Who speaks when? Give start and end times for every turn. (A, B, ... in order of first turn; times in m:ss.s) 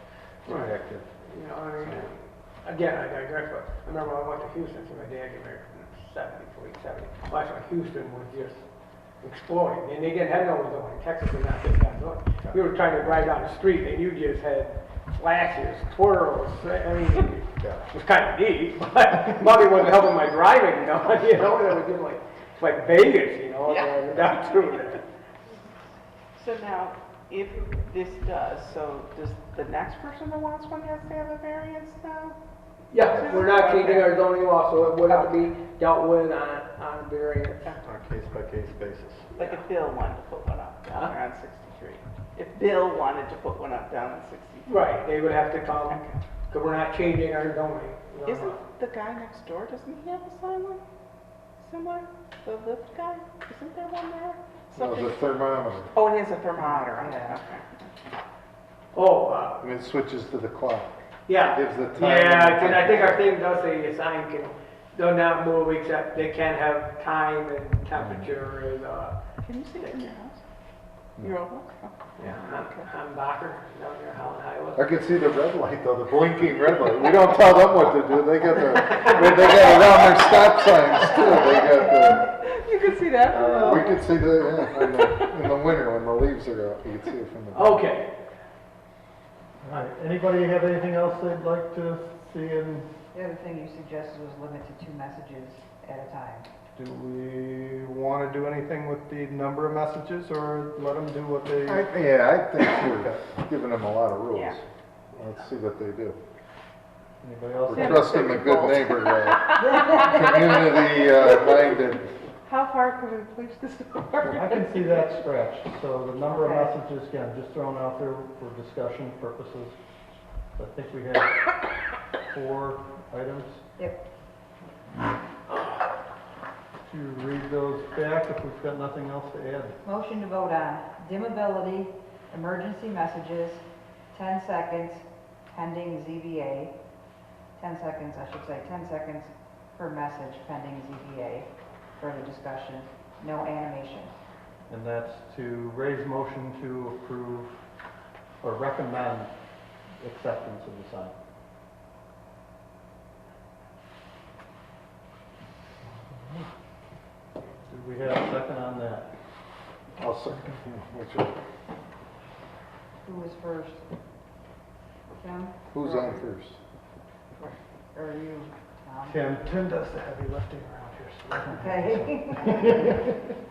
0:00.4-0:01.1 A
0:00.4-0:08.6 B
0:01.8-0:02.1 A
0:09.2-0:25.0 B
0:17.6-0:17.8 A
0:26.4-0:32.4 C
0:32.9-0:37.8 B
0:33.0-0:34.3 C
0:35.0-0:35.5 C
0:37.8-0:39.3 A
0:39.4-0:44.9 C
0:39.4-0:39.6 B
0:40.9-0:41.2 B
0:44.7-0:48.6 B
0:45.8-0:46.2 C
0:48.2-0:50.8 C
0:51.6-0:55.3 C
0:54.8-0:55.9 D
0:55.9-0:57.8 C
0:56.6-0:57.4 E
0:58.9-0:59.6 B
0:59.6-1:00.9 D
1:01.3-1:09.2 B
1:01.5-1:03.3 D
1:09.4-1:10.4 C
1:11.2-1:12.0 C
1:12.2-1:14.9 B
1:14.8-1:22.3 D
1:22.2-1:23.8 C
1:23.3-1:27.8 D
1:23.5-1:23.8 A
1:27.5-1:28.1 B
1:29.6-1:32.9 A
1:33.1-1:36.5 E
1:36.8-1:41.9 A
1:41.7-1:46.2 D
1:42.8-1:43.2 A
1:44.3-1:44.6 C
1:47.2-1:48.2 A
1:47.7-1:52.1 D
1:47.7-1:51.5 C
1:52.4-1:54.6 C
1:54.2-1:59.8 A
1:56.2-1:56.8 E
2:00.6-2:01.4 A
2:02.3-2:03.6 A
2:06.8-2:09.8 A
2:09.8-2:16.7 E
2:17.6-2:24.1 E
2:24.7-2:27.6 A
2:28.4-2:29.3 A
2:30.0-2:31.2 A
2:37.7-2:39.1 A
2:40.0-2:41.4 D
2:43.0-2:43.8 E
2:45.2-2:46.2 E
2:45.7-2:46.6 D
2:47.4-2:49.2 E
2:49.0-2:53.2 A
2:51.5-2:53.1 E